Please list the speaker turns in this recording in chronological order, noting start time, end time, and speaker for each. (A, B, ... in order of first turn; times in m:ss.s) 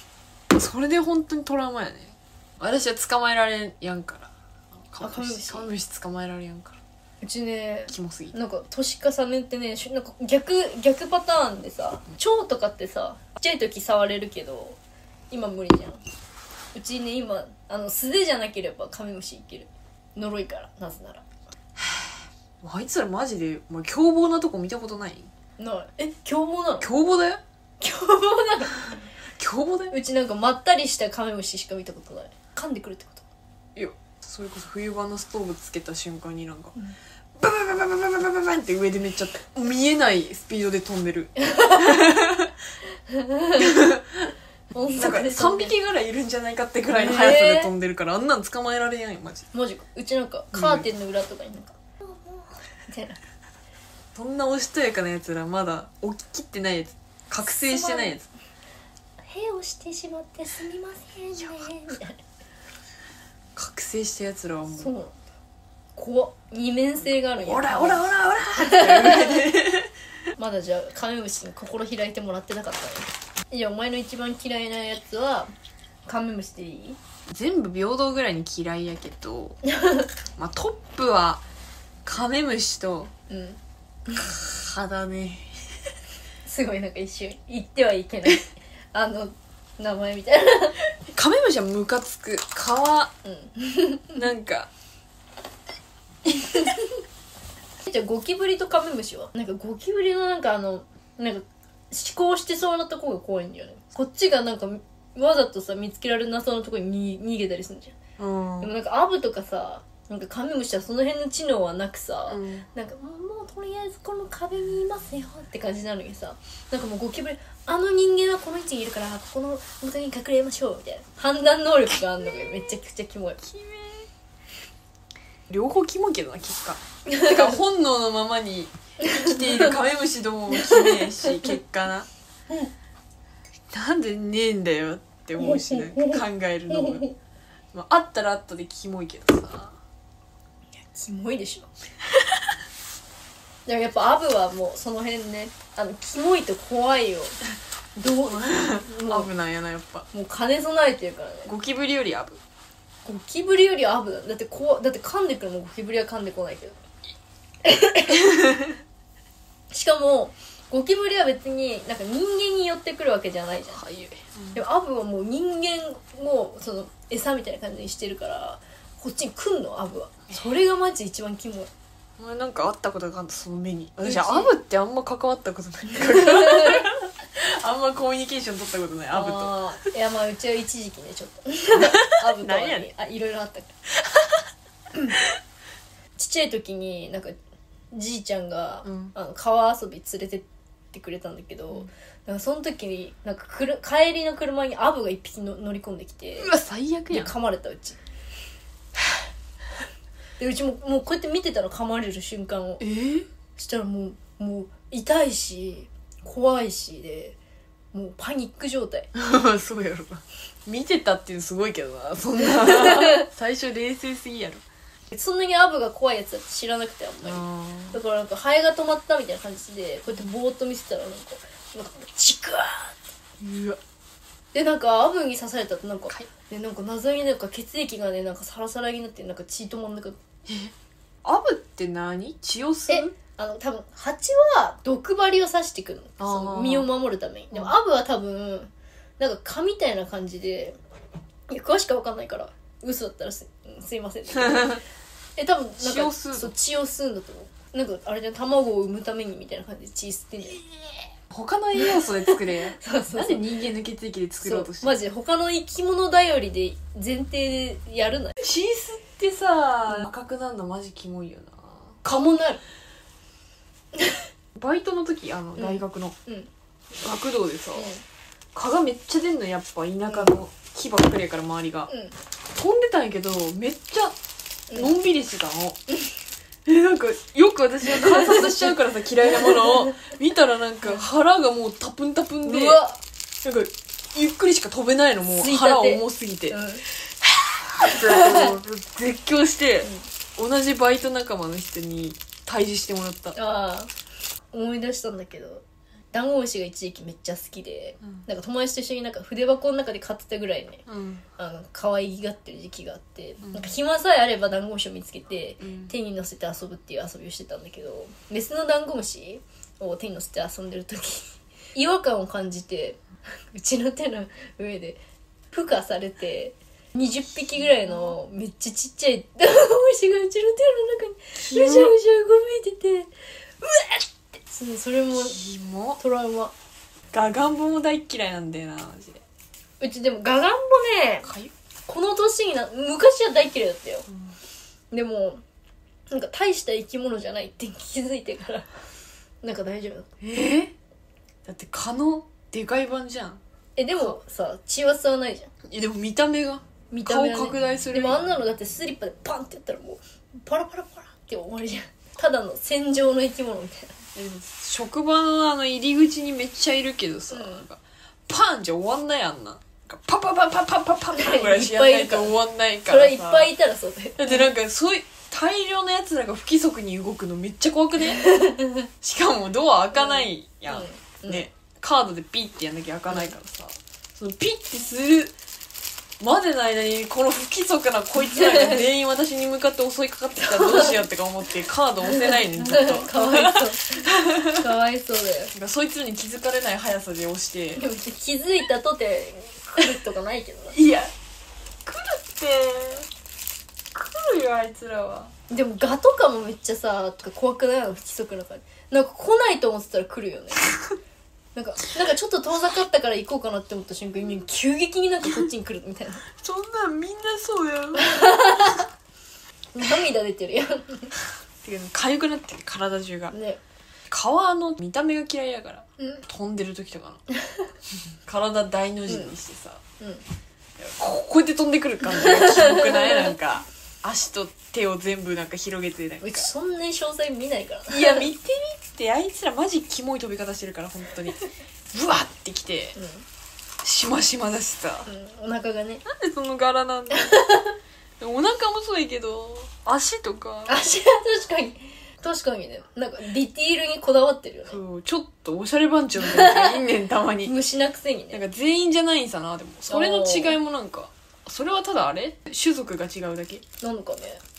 0:00.5-0:04.3 A
0:04.9-0:06.8 A
0:05.0-0:05.7 B
0:07.2-0:14.8 B
0:07.9-0:08.4 A
0:15.3-0:16.0 B
0:16.7-0:21.3 B
0:21.8-0:22.1 A
0:22.6-0:25.3 A
0:25.6-0:26.9 B
0:26.8-0:27.4 A
0:27.8-0:29.0 B
0:29.4-0:30.0 A
0:29.9-0:33.2 B
0:33.8-0:36.7 A
0:37.4-0:42.5 A
0:41.4-0:42.2 B
0:43.1-0:43.8 B
0:43.6-0:44.3 A
0:44.7-0:45.8 B
0:45.0-0:49.5 A
0:46.9-0:47.7 B
0:49.5-0:53.2 B
0:50.5-0:50.9 A
0:54.2-0:58.3 A
0:57.6-0:58.2 B
0:59.3-1:02.2 B
1:03.6-1:04.9 A
1:04.7-1:05.2 B
1:06.0-1:09.5 B
1:07.4-1:09.9 A
1:10.4-1:15.5 B
1:16.1-1:17.0 B
1:17.3-1:19.6 A
1:19.6-1:20.1 B
1:20.4-1:21.4 A
1:22.0-1:23.1 A
1:23.3-1:24.2 B
1:24.2-1:25.5 A
1:26.4-1:30.8 B
1:31.1-1:33.1 A
1:33.2-1:34.2 B
1:34.2-1:34.7 A
1:36.3-1:37.0 B
1:37.8-1:48.0 B
1:48.2-1:48.7 A
1:48.6-2:03.4 B
1:52.3-1:52.7 A
2:03.4-2:04.1 A
2:05.5-2:12.1 A
2:07.1-2:07.6 B
2:09.0-2:09.8 B
2:10.5-2:11.4 B
2:13.7-2:17.0 A
2:15.4-2:17.1 B
2:17.7-2:19.8 A
2:20.9-2:21.7 B
2:23.7-2:27.4 B
2:28.0-2:29.3 B
2:28.3-2:30.1 A
2:30.1-2:31.5 B
2:31.5-2:32.4 A
2:33.0-2:36.8 B
2:37.6-2:38.3 B
2:38.2-2:38.8 A
2:39.7-2:43.8 B
2:43.7-2:44.6 A
2:44.5-2:51.7 B
2:52.2-2:59.6 A
2:54.0-2:54.5 B
2:56.1-2:56.9 B
2:59.1-3:03.7 B
3:01.7-3:02.9 A
3:06.2-3:07.4 B
3:07.9-3:16.5 B
3:08.8-3:09.1 A
3:16.4-3:17.3 A
3:17.1-3:18.0 B
3:20.4-3:22.8 B
3:22.8-3:23.3 A
3:23.6-3:27.4 B
3:27.9-3:29.1 B
3:29.1-3:34.6 A
3:32.6-3:33.2 B
3:35.1-3:43.0 B
3:37.2-3:38.0 A
3:43.4-3:43.8 A
3:44.5-3:50.2 B
3:50.5-3:50.7 A
3:51.2-3:53.1 A
3:52.9-4:00.8 B
3:56.2-3:56.9 A
4:01.5-4:04.8 B
4:05.4-4:10.6 B
4:05.8-4:06.5 A
4:11.3-4:15.0 A
4:11.8-4:13.6 B
4:14.4-4:18.4 B
4:18.4-4:22.0 A
4:22.0-4:22.6 B
4:24.6-4:26.2 A
4:25.6-4:26.5 B
4:27.0-4:27.9 A
4:27.8-4:28.0 B
4:28.5-4:31.9 A
4:30.1-4:30.3 B
4:31.9-4:32.2 B
4:32.6-4:34.2 A
4:34.7-4:35.8 A
4:36.7-4:42.8 A
4:37.9-4:38.6 B
4:39.4-4:39.9 B
4:42.4-4:43.0 B
4:43.4-4:53.4 A
4:45.3-4:46.8 B
4:47.9-4:48.6 B
4:53.4-4:53.9 B
4:54.5-5:00.8 B
5:00.9-5:01.2 A
5:01.4-5:15.0 B
5:03.4-5:03.7 A
5:05.6-5:05.9 A
5:15.5-5:23.1 B
5:21.4-5:22.0 A
5:23.6-5:25.4 B
5:25.1-5:26.0 A
5:26.0-5:26.5 B
5:27.1-5:29.2 A
5:29.8-5:31.3 B
5:31.2-5:31.5 A
5:31.9-5:34.1 B
5:34.9-5:35.4 B
5:36.1-5:38.7 B
5:39.4-5:40.1 B
5:40.2-5:40.7 A
5:41.4-5:43.4 A
5:43.8-5:45.5 B
5:45.6-5:48.3 A
5:46.9-5:54.0 B
5:54.2-6:03.5 A
5:57.3-5:57.6 B
6:01.1-6:02.4 B
6:02.9-6:04.5 B
6:04.2-6:08.3 A
6:08.0-6:08.9 B
6:09.0-6:15.3 A
6:09.9-6:11.5 B
6:16.2-6:24.7 A
6:18.3-6:18.8 B
6:20.4-6:21.0 B
6:22.1-6:25.5 B
6:25.5-6:27.8 A
6:27.8-6:30.8 B
6:30.7-6:31.1 A
6:31.9-6:33.1 A
6:33.9-6:35.3 A
6:35.5-6:40.7 B
6:41.6-6:46.2 B
6:46.4-6:48.6 A
6:48.0-6:48.9 B
6:49.7-6:51.1 B
6:51.6-6:53.4 A
6:53.3-6:53.6 B
6:54.1-6:57.2 A
6:58.2-6:59.8 A
6:59.1-6:59.3 B
7:00.8-7:06.5 A
7:02.1-7:03.3 B
7:06.2-7:08.3 B
7:07.9-7:13.0 A
7:13.0-7:13.2 B
7:13.8-7:15.1 A
7:15.1-7:16.0 B
7:16.0-7:17.4 A
7:17.1-7:17.7 B
7:18.2-7:20.8 A
7:20.7-7:24.8 B
7:24.7-7:27.5 A
7:26.2-7:26.8 B
7:27.4-7:28.4 B
7:28.3-7:33.6 A
7:29.9-7:30.6 B
7:33.8-7:34.4 B